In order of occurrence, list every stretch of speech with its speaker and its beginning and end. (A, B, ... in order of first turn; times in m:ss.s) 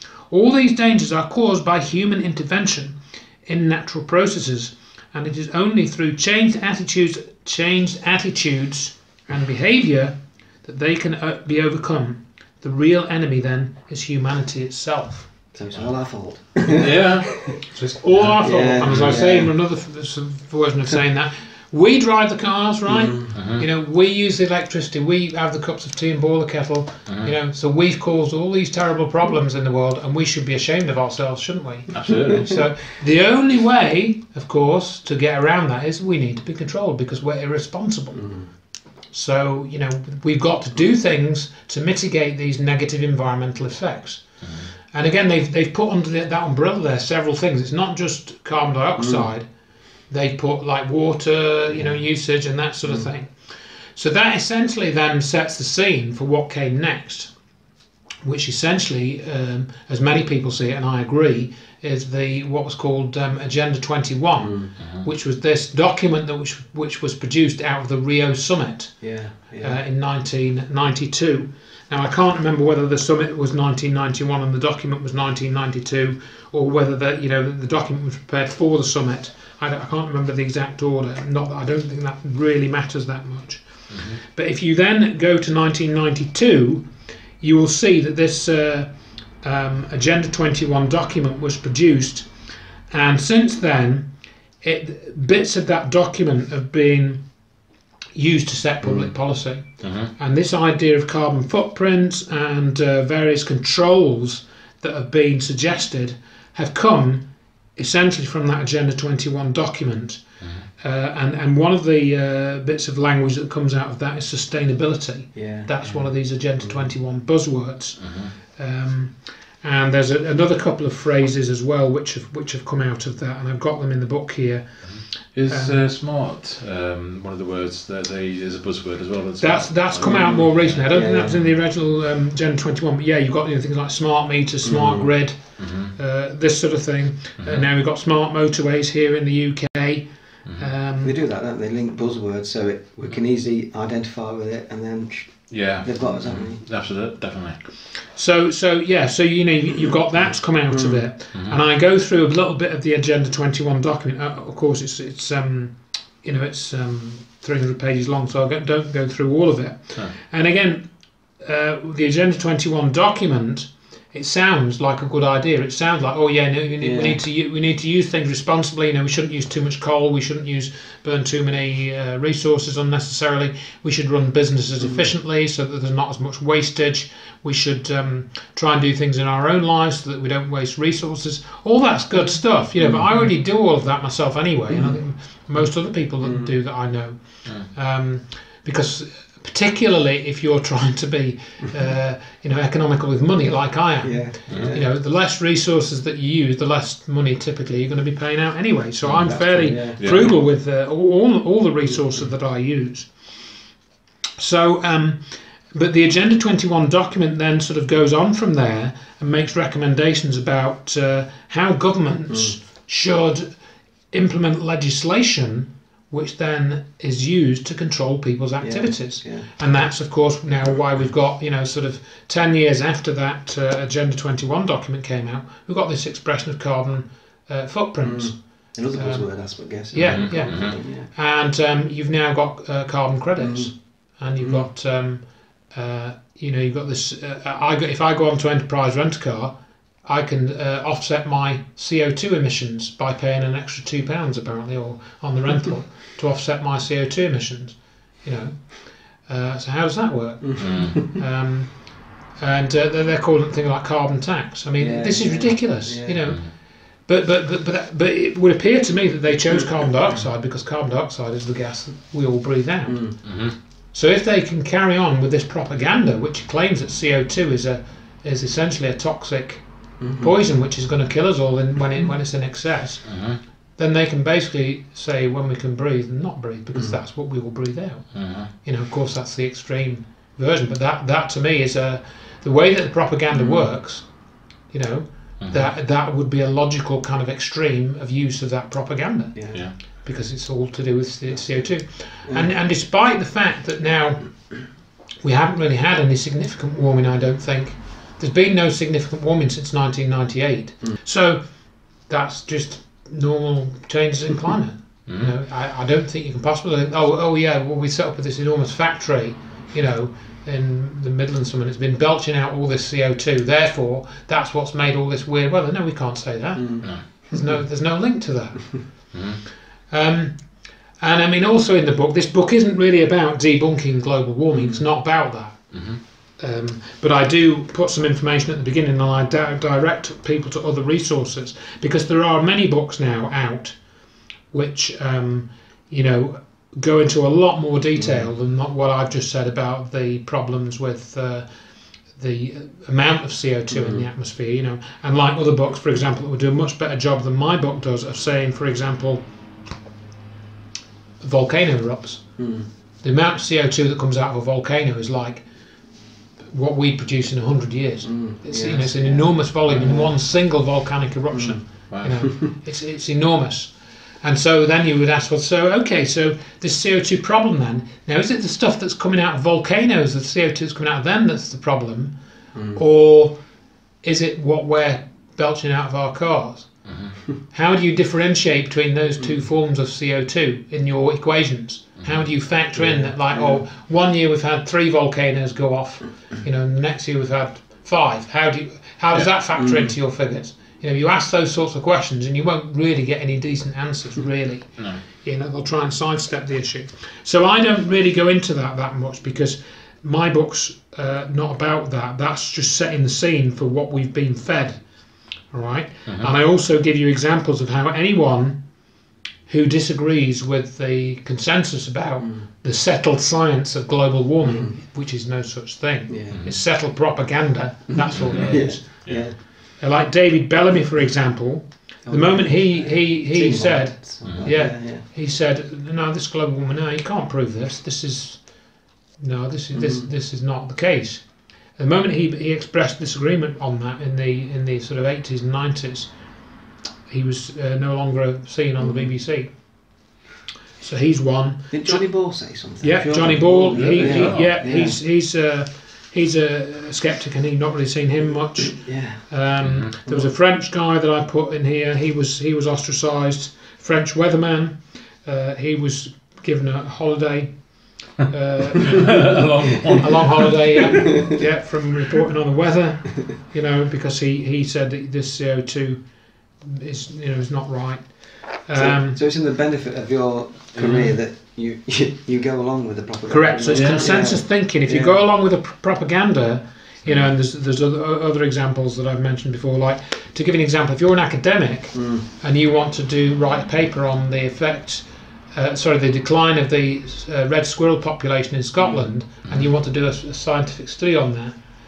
0:00.3-0:15.3 A
0:15.5-0:17.5 B
0:16.7-0:17.6 C
0:17.7-0:38.3 A
0:18.4-0:19.5 B
0:18.8-0:19.2 C
0:22.9-0:23.4 B
0:23.3-0:23.6 C
0:27.1-0:27.3 C
0:31.9-0:32.7 C
0:38.1-0:38.5 B
0:39.1-0:49.5 A
0:44.4-0:44.7 C
0:49.0-0:49.3 B
0:50.1-0:57.3 A
0:51.7-0:52.0 B
0:58.2-1:26.9 A
1:04.4-1:04.7 B
1:04.8-1:05.0 C
1:09.0-1:09.8 B
1:23.9-1:24.2 C
1:27.4-1:32.3 A
1:32.9-1:34.1 A
1:34.6-1:37.3 A
1:38.1-2:05.8 A
1:38.8-1:39.1 B
1:39.8-1:40.1 C
1:50.4-1:50.6 C
1:55.3-1:56.0 B
1:56.6-1:56.9 B
1:58.0-1:58.3 C
2:04.8-2:10.9 C
2:09.4-2:21.2 A
2:10.0-2:11.5 B
2:14.6-2:15.1 B
2:15.6-2:15.9 C
2:17.4-2:17.6 C
2:21.0-2:26.6 B
2:25.5-2:27.6 C
2:28.1-3:23.1 A
2:30.7-2:31.1 B
2:46.8-2:47.2 B
2:54.8-2:55.1 B
3:02.8-3:03.1 B
3:04.7-3:05.0 B
3:06.2-3:06.5 B
3:14.0-3:14.9 B
3:14.5-3:14.8 C
3:19.1-3:20.3 B
3:20.0-3:20.3 C
3:24.4-3:33.6 A
3:34.1-5:19.2 A
3:38.6-3:39.5 B
3:48.0-3:51.1 B
3:50.0-3:50.8 C
3:53.4-3:54.7 B
4:10.4-4:11.0 B
4:10.6-4:11.0 C
4:14.8-4:16.3 B
4:16.3-4:16.5 C
4:22.9-4:23.2 B
4:23.2-4:23.6 C
4:30.0-4:30.3 B
4:33.0-4:33.4 C
4:38.1-4:38.5 C
4:45.4-4:45.7 C
4:49.3-4:49.6 B
4:51.3-4:51.7 B
4:52.2-4:52.5 B
5:05.1-5:05.3 C
5:16.6-5:17.6 B
5:19.1-5:19.4 C
5:19.9-5:33.8 A
5:24.5-5:24.8 B
5:25.7-5:26.0 C
5:34.5-5:41.5 A
5:42.0-5:49.2 A
5:43.7-5:44.0 B
5:51.2-5:52.4 A
5:52.4-5:52.7 B
5:53.0-5:55.5 A
5:56.4-6:12.1 A
5:58.0-6:00.1 B
6:01.3-6:02.4 B
6:01.9-6:02.3 C
6:12.5-6:12.8 B
6:12.7-6:13.4 A
6:14.0-6:44.8 A
6:16.8-6:17.2 C
6:22.7-6:23.6 B
6:29.5-6:30.0 B
6:45.5-6:48.6 A
6:46.0-6:46.3 C
6:49.5-7:16.1 A
6:54.4-6:54.7 B
6:56.1-6:56.4 B
6:56.3-6:56.6 C
6:57.9-6:59.4 B
6:58.1-6:59.3 C
7:02.0-7:05.0 B
7:04.2-7:04.5 C
7:09.7-7:10.1 B
7:17.1-7:20.0 A
7:18.8-7:19.1 B
7:20.8-7:39.4 A
7:21.7-7:25.0 B
7:23.7-7:24.5 C
7:28.6-7:29.4 B
7:29.6-7:29.9 C
7:30.0-7:30.3 B
7:38.8-7:40.6 C
7:40.0-7:49.2 A
7:40.9-7:41.2 B
7:48.7-7:55.2 B
7:50.7-7:51.2 C
7:53.3-8:11.6 A
7:53.7-7:54.4 C
7:57.0-7:57.3 C
8:01.9-8:02.2 B
8:08.8-8:09.1 B
8:09.4-8:09.7 C